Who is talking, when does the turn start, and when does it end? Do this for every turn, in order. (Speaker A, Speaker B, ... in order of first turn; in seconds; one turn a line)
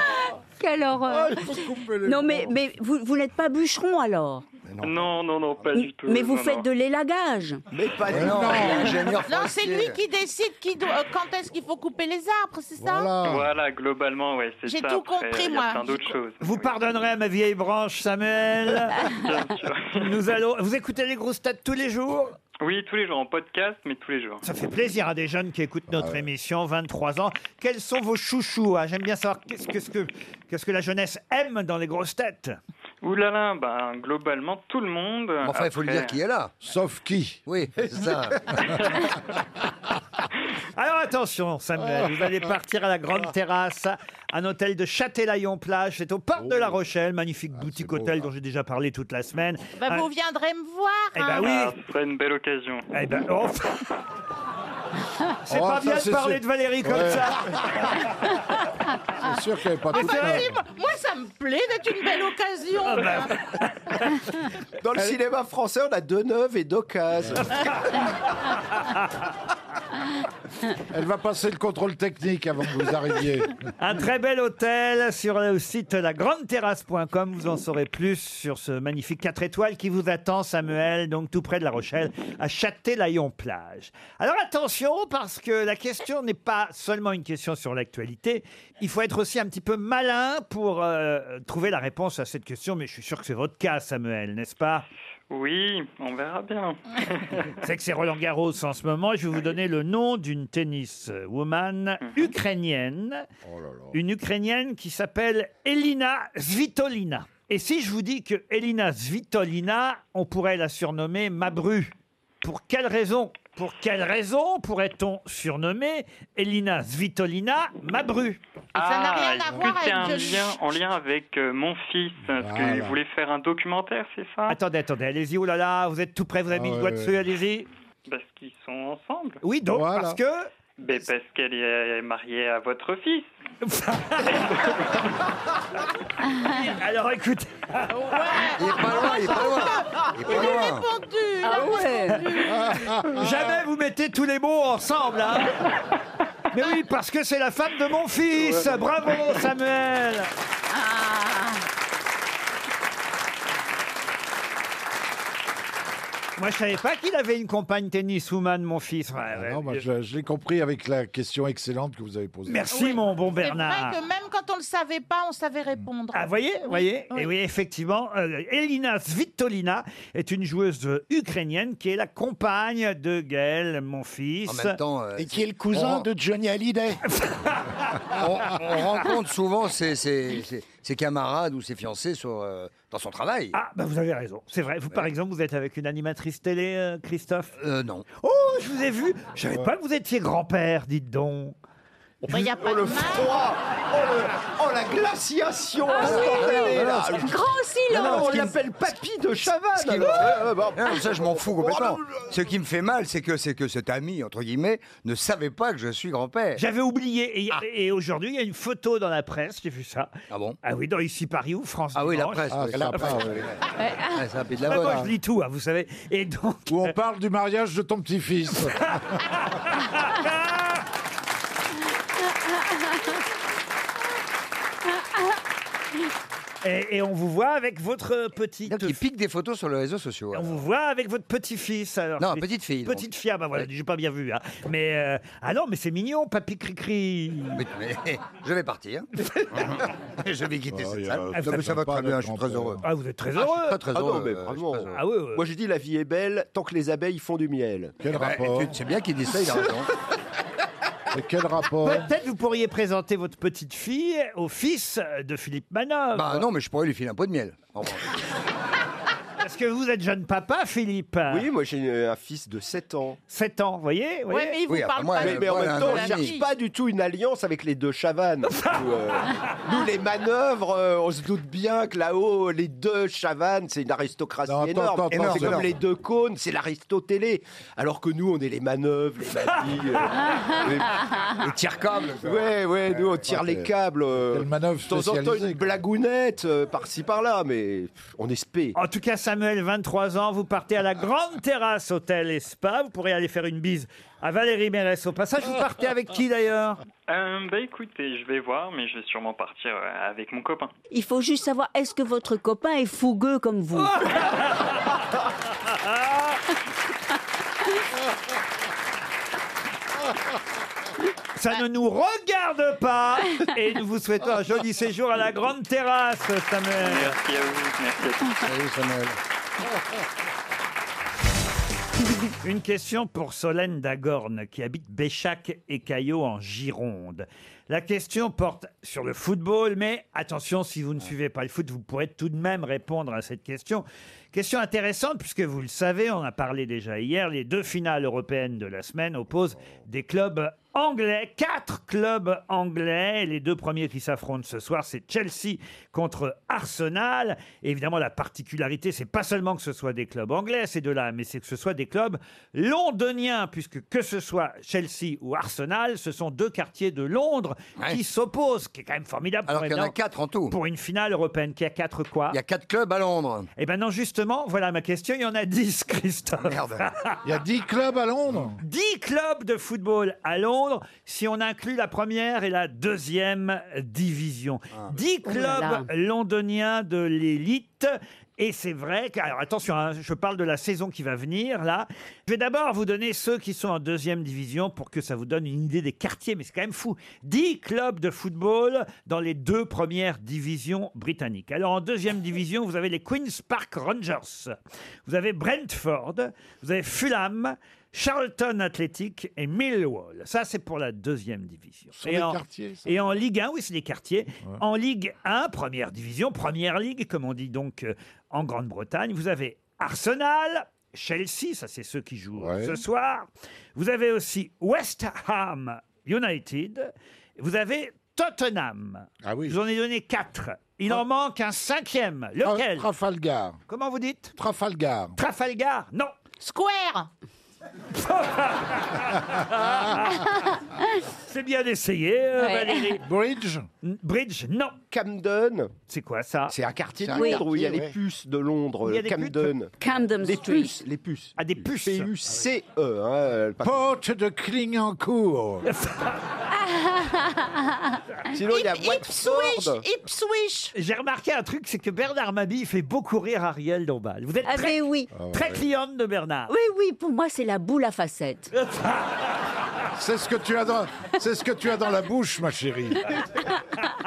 Speaker A: 0.1-4.5
Speaker B: 1.1-2.6
Speaker C: 4.7-5.1
Speaker D: 4.8-6.7
Speaker A: 5.8-7.6
Speaker E: 7.7-9.2
Speaker C: 8.1-10.0
Speaker B: 8.1-9.1
Speaker F: 9.2-13.2
Speaker B: 12.8-13.5
Speaker D: 13.2-16.8
Speaker F: 14.7-16.1
Speaker G: 16.4-19.1
Speaker D: 19.1-20.1
Speaker G: 19.9-22.4
Speaker D: 22.6-24.4
Speaker G: 24.4-32.6
Speaker B: 25.9-26.3
Speaker D: 33.0-36.2
Speaker C: 35.4-36.5
Speaker B: 36.6-37.9
Speaker C: 37.5-38.8
Speaker G: 40.8-50.1
Speaker B: 46.4-46.8
Speaker B: 47.5-48.3
Speaker F: 49.8-51.5
Speaker G: 51.1-51.7
Speaker D: 51.3-52.9
Speaker G: 52.9-53.9
Speaker G: 55.5-57.7
Speaker B: 55.5-57.8
Speaker B: 59.2-60.5
Speaker F: 59.9-63.4
Speaker G: 62.9-64.2
Speaker E: 64.8-68.0
Speaker B: 70.9-73.6
Speaker G: 73.8-94.8
Speaker D: 95.3-97.5
Speaker G: 97.6-103.3
Speaker B: 103.4-104.0
Speaker G: 103.9-119.2
Speaker F: 118.8-120.6
Speaker D: 118.9-124.6
Speaker B: 122.4-123.0
Speaker G: 124.5-127.7
Speaker B: 126.5-127.2
Speaker D: 128.1-129.4
Speaker G: 129.4-130.5
Speaker B: 129.7-130.2
Speaker D: 130.8-133.3
Speaker G: 133.6-134.8
Speaker G: 136.4-138.2
Speaker F: 137.9-143.1
Speaker C: 138.6-140.9
Speaker A: 141.4-142.2
Speaker G: 143.0-145.7
Speaker G: 146.5-150.3
Speaker A: 150.7-151.5
Speaker G: 156.4-159.8
Speaker B: 159.3-162.7
Speaker G: 162.5-164.0
Speaker F: 162.7-167.3
Speaker G: 166.1-174.8
Speaker C: 174.5-176.1
Speaker H: 175.2-177.0
Speaker G: 177.1-178.9
Speaker C: 178.1-183.6
Speaker G: 183.5-187.6
Speaker C: 187.6-188.1
Speaker G: 188.2-191.6
Speaker E: 192.2-202.3
Speaker F: 192.3-193.3
Speaker A: 195.9-198.5
Speaker C: 196.0-197.2
Speaker C: 197.9-198.5
Speaker C: 199.7-206.6
Speaker G: 206.6-213.2
Speaker C: 210.3-210.6
Speaker C: 211.9-213.6
Speaker B: 212.5-213.5
Speaker C: 214.1-215.0
Speaker G: 214.6-216.9
Speaker B: 214.8-215.1
Speaker B: 216.7-219.2
Speaker G: 218.8-220.8
Speaker G: 226.6-229.0
Speaker C: 228.7-230.6
Speaker G: 230.3-237.6
Speaker C: 232.2-233.1
Speaker C: 237.6-242.8
Speaker B: 240.7-242.8
Speaker G: 241.3-241.6
Speaker G: 242.8-243.8
Speaker C: 243.4-244.9
Speaker E: 243.9-248.0
Speaker G: 244.9-245.4
Speaker B: 248.0-248.8
Speaker C: 248.1-249.9
Speaker B: 251.1-252.1
Speaker G: 251.8-256.4
Speaker C: 256.1-258.1
Speaker G: 259.4-261.5
Speaker E: 261.3-263.2
Speaker G: 263.3-264.6
Speaker F: 264.3-266.5
Speaker C: 264.7-266.3
Speaker E: 265.2-281.1
Speaker G: 268.5-269.4
Speaker B: 274.5-275.7
Speaker C: 275.1-275.7
Speaker C: 281.4-282.6
Speaker E: 282.2-288.8
Speaker B: 283.3-283.7
Speaker B: 284.2-285.8
Speaker G: 288.7-296.8
Speaker D: 297.1-300.7
Speaker A: 300.9-304.0
Speaker G: 303.8-304.9
Speaker G: 305.8-306.4
Speaker G: 311.4-317.1
Speaker D: 316.8-318.4
Speaker C: 318.4-319.2
Speaker G: 322.4-359.9
Speaker C: 359.5-360.6
Speaker G: 360.5-362.4
Speaker C: 362.3-363.5
Speaker G: 363.6-367.2
Speaker C: 366.4-366.8
Speaker B: 367.2-368.6
Speaker G: 368.6-394.5
Speaker A: 375.3-375.9
Speaker G: 395.1-422.9
Speaker B: 402.0-402.9
Speaker B: 412.4-412.8
Speaker B: 419.2-419.6
Speaker B: 422.4-423.6
Speaker G: 423.7-424.3
Speaker B: 424.4-425.2
Speaker G: 425.2-426.1
Speaker F: 426.4-427.1
Speaker G: 427.9-430.2
Speaker G: 431.2-433.1
Speaker A: 432.4-432.9
Speaker B: 433.0-433.7
Speaker G: 433.8-434.8
Speaker E: 434.9-435.7
Speaker G: 435.9-436.6
Speaker E: 436.5-443.8
Speaker H: 437.1-438.0
Speaker A: 437.1-437.4
Speaker G: 438.8-439.5
Speaker A: 439.8-440.8
Speaker G: 441.4-442.1
Speaker B: 443.6-445.7
Speaker G: 445.6-446.2
Speaker A: 446.7-447.6
Speaker E: 448.3-449.8
Speaker F: 448.4-450.7
Speaker G: 450.7-456.5
Speaker A: 454.4-455.1
Speaker B: 455.1-455.6
Speaker A: 456.5-458.5
Speaker G: 458.6-459.2
Speaker B: 459.9-463.2